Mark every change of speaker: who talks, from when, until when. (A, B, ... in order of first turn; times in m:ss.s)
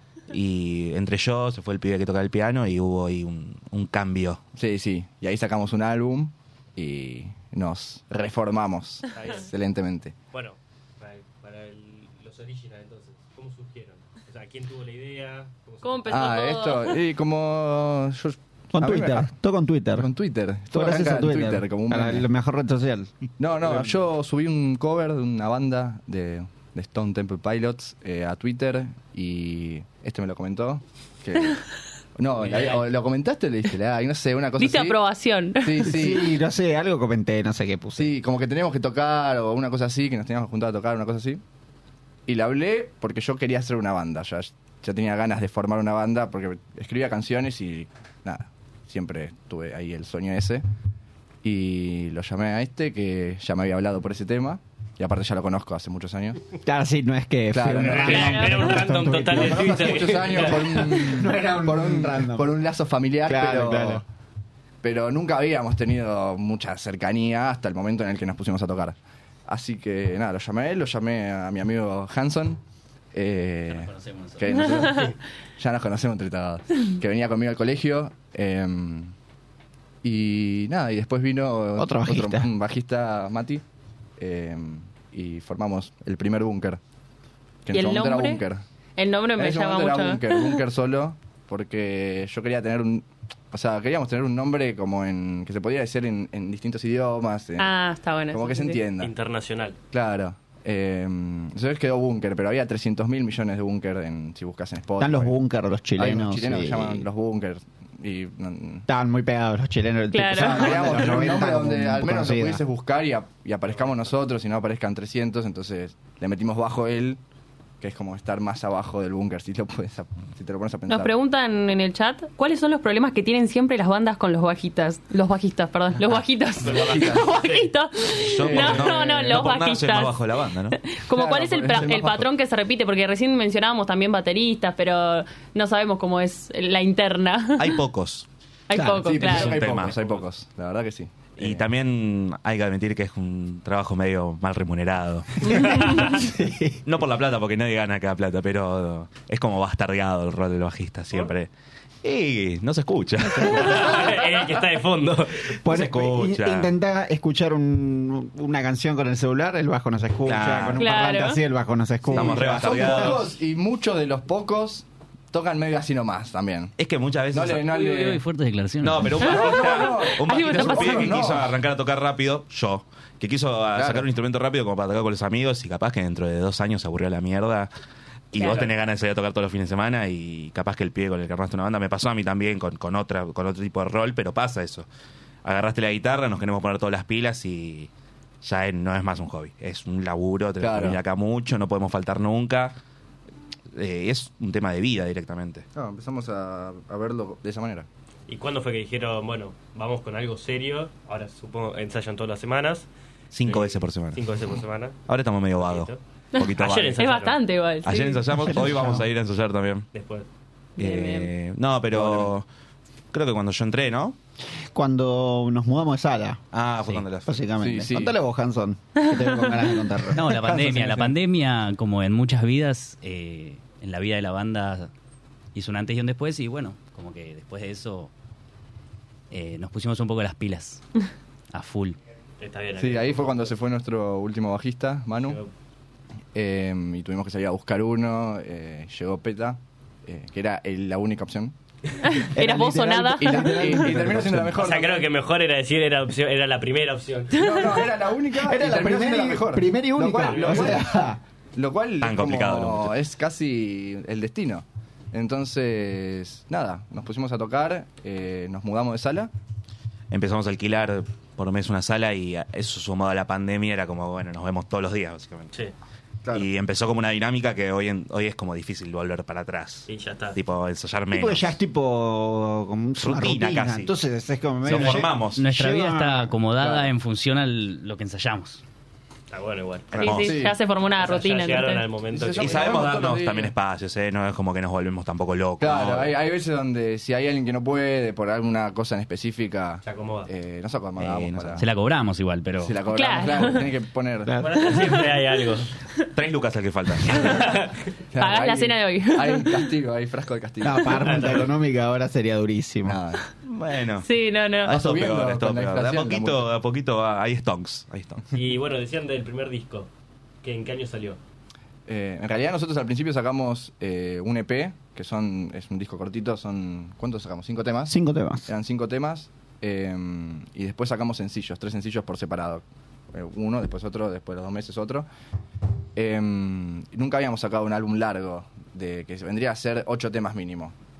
0:00.3-0:04.4 A
0:04.5-0:10.2 B
0:09.1-0:09.5 C
0:10.3-0:16.3 C
0:15.8-0:17.0 D
0:16.1-0:19.3 B
0:18.7-0:20.1 E
0:20.0-0:22.2 B
0:20.7-0:23.1 E
0:23.4-0:31.6 B
0:32.2-0:35.0 B
0:32.4-0:32.8 C
0:34.6-0:35.9 D
0:35.6-0:36.3 B
0:35.8-0:38.1 E
0:38.0-0:41.4 B
0:42.3-0:50.6 B
0:51.4-0:56.4 B
0:56.6-1:02.5 E
0:57.5-0:58.7 B
0:57.8-1:00.8 C
0:58.1-0:58.6 D
0:59.3-1:04.0 B
1:03.2-1:04.0 E
1:04.8-1:09.0 B
1:09.5-1:12.6 B
1:13.1-1:19.1 B
1:13.7-1:14.4 F
1:20.0-1:23.6 B
1:21.8-1:22.5 E
1:24.2-1:26.8 B
1:27.6-1:28.6 B
1:27.7-1:28.4 D
1:29.0-1:30.6 D
1:29.4-1:37.8 B
1:37.6-1:38.8 D
1:38.3-1:39.1 B
1:39.0-1:39.8 C
1:39.9-1:45.3 B
1:45.0-1:47.1 E
1:46.0-1:48.8 B
1:48.9-1:52.6 E
1:50.1-1:50.9 D
1:50.4-1:57.2 B
1:53.7-1:54.0 C
1:57.8-2:01.1 B
2:00.9-2:17.8 D
2:06.6-2:07.3 B
2:06.6-2:07.7 C
2:08.2-2:10.8 A
2:08.4-2:09.3 B
2:11.1-2:12.3 B
2:17.6-2:18.3 A
2:18.7-2:19.6 D
2:18.8-2:19.1 E
2:18.9-2:21.6 B
2:19.2-2:20.2 A
2:21.4-2:25.3 A
2:25.5-2:26.8 E
2:25.6-2:26.1 C
2:26.8-2:31.5 A
2:32.0-2:34.1 A
2:33.4-2:35.6 C
2:35.6-2:43.2 E
2:35.7-2:36.7 A
2:40.2-2:40.8 A
2:40.8-2:41.4 D
2:42.1-2:43.2 A
2:42.1-2:46.7 B
2:46.8-2:47.7 A
2:47.3-2:48.2 B
2:47.7-2:49.2 F
2:48.8-2:57.7 A
2:49.2-2:51.2 D
2:49.2-2:51.5 B
2:53.7-2:54.0 B
2:58.3-3:04.9 A
2:58.4-2:58.7 D
3:05.4-3:07.9 A
3:08.4-3:12.7 A
3:10.6-3:11.0 B
3:13.7-3:15.6 A
3:15.7-3:17.9 B
3:18.3-3:22.9 C
3:23.3-3:24.3 A
3:23.4-3:25.0 C
3:25.1-3:27.0 A
3:25.5-3:26.0 C
3:26.4-3:28.3 D
3:26.6-3:27.4 C
3:27.8-3:29.9 A
3:28.4-3:29.0 E
3:29.9-3:30.3 C
3:30.8-3:31.3 D
3:30.8-3:32.4 A
3:31.9-3:32.3 B
3:33.1-3:34.2 A
3:34.7-3:36.4 E
3:36.5-3:37.4 A
3:37.2-3:40.3 E
3:37.6-3:38.1 B
3:39.0-3:39.3 D
3:40.1-3:44.9 F
3:40.4-3:41.1 B
3:45.5-3:48.1 F
3:49.3-3:50.8 F
3:51.5-3:52.0 F
3:52.4-3:53.5 C
3:52.8-3:55.4 B
3:56.3-4:01.5 B
4:02.0-4:03.9 D
4:02.3-4:04.7 E
4:03.1-4:05.1 B
4:04.6-4:07.5 C
4:07.3-4:11.0 B
4:08.3-4:11.2 E
4:10.2-4:10.8 C
4:11.6-4:19.3 B
4:12.0-4:12.9 A
4:20.1-4:25.5 A
4:26.3-4:31.6 A
4:29.9-4:30.4 C
4:31.1-4:36.3 E
4:33.0-4:34.0 A
4:34.6-4:35.4 A
4:35.4-4:38.6 F
4:36.6-4:36.9 B
4:39.3-4:40.2 C
4:39.9-4:40.4 A
4:40.0-4:41.9 D
4:40.1-4:40.6 B
4:41.0-4:42.9 C
4:42.0-4:43.5 B
4:42.4-4:46.1 A
4:45.6-4:51.6 B
4:49.8-4:50.3 C
4:51.0-4:51.6 A
4:51.6-4:52.8 F
4:52.6-4:54.3 B
4:52.8-4:53.7 D
4:54.2-4:55.0 E
4:54.4-4:55.7 C
4:56.1-4:57.2 A
4:57.2-4:57.7 C
4:58.1-5:01.4 B
4:58.2-4:59.7 D
5:00.6-5:03.0 E
5:01.0-5:01.5 C
5:02.8-5:03.2 B
5:03.4-5:04.1 A
5:04.0-5:04.8 D
5:04.6-5:08.2 A
5:04.7-5:06.5 B
5:08.3-5:09.9 C
5:10.4-5:11.2 C
5:11.9-5:17.9 B
5:17.9-5:18.5 E
5:18.5-5:25.1 B
5:26.0-5:30.7 B